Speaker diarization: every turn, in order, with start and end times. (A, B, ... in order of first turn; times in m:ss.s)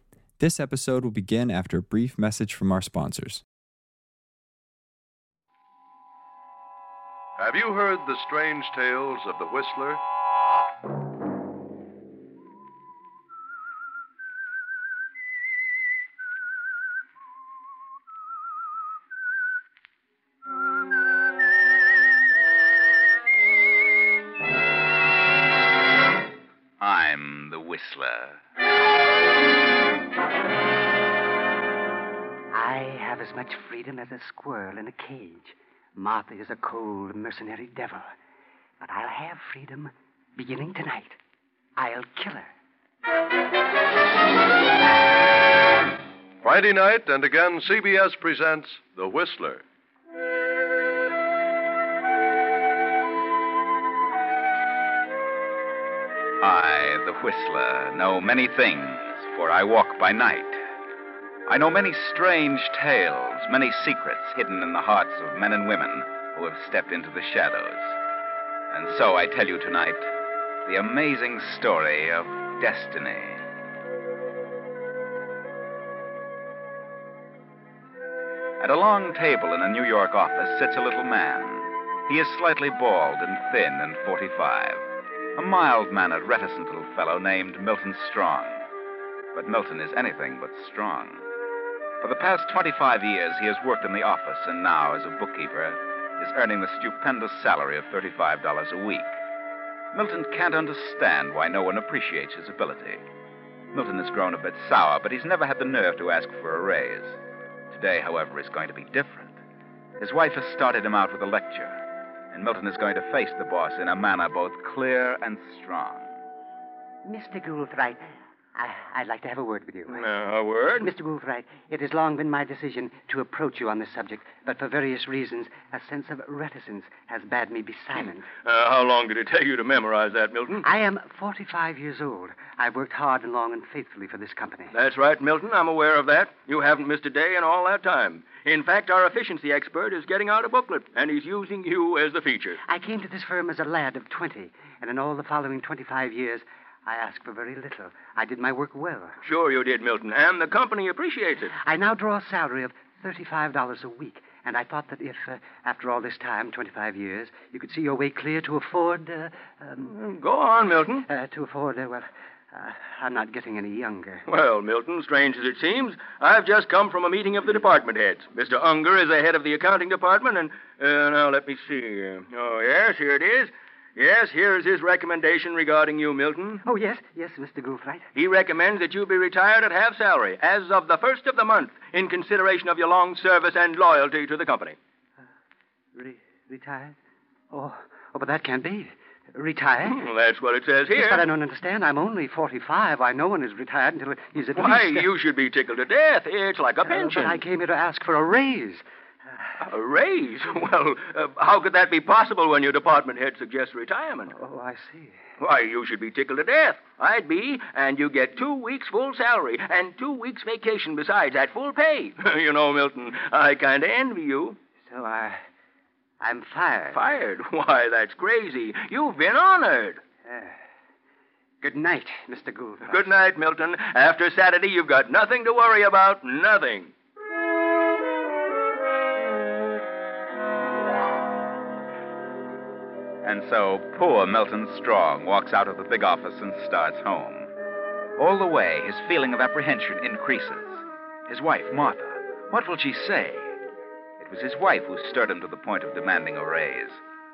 0:00.4-0:03.4 A
0:07.4-0:10.0 B
0:26.8-0:28.4 C
0:32.5-0:38.1 D
0:38.8-0:41.2 D
0:41.8-0:42.5 D
0:46.4-0:49.6 B
0:56.4-1:00.6 C
1:01.5-1:08.0 C
1:08.7-1:10.1 C
1:10.6-1:13.4 C
1:18.6-1:24.8 C
1:25.4-1:28.6 C
1:29.3-1:31.2 C
1:32.0-1:39.1 C
1:39.9-1:43.0 C
1:43.7-1:47.2 C
1:47.7-1:49.4 C
1:50.0-1:51.8 C
1:52.3-1:56.1 C
1:57.0-1:58.0 D
1:58.6-2:00.1 D
1:59.9-2:00.9 E
2:00.8-2:08.3 D
2:08.4-2:10.6 E
2:10.6-2:14.7 D
2:14.7-2:22.6 E
2:22.6-2:29.2 D
2:29.2-2:31.5 E
2:31.5-2:39.9 D
2:39.8-2:41.1 E
2:41.0-2:44.2 D
2:44.3-2:56.6 E
2:56.6-2:58.1 D
2:58.1-3:04.8 E
3:05.9-3:07.0 D
3:07.5-3:10.0 D
3:09.8-3:11.2 E
3:10.9-3:15.1 D
3:14.5-3:17.4 E
3:16.8-3:18.8 D
3:19.6-3:24.3 E
3:24.3-3:25.2 D
3:25.4-3:34.6 E
3:34.8-3:35.4 D
3:36.2-3:37.0 D
3:36.9-3:40.0 E
3:40.2-3:40.6 D
3:41.6-3:43.1 D
3:42.9-3:46.9 E
3:53.2-3:57.5 C
3:58.2-4:03.6 C
4:04.2-4:07.0 C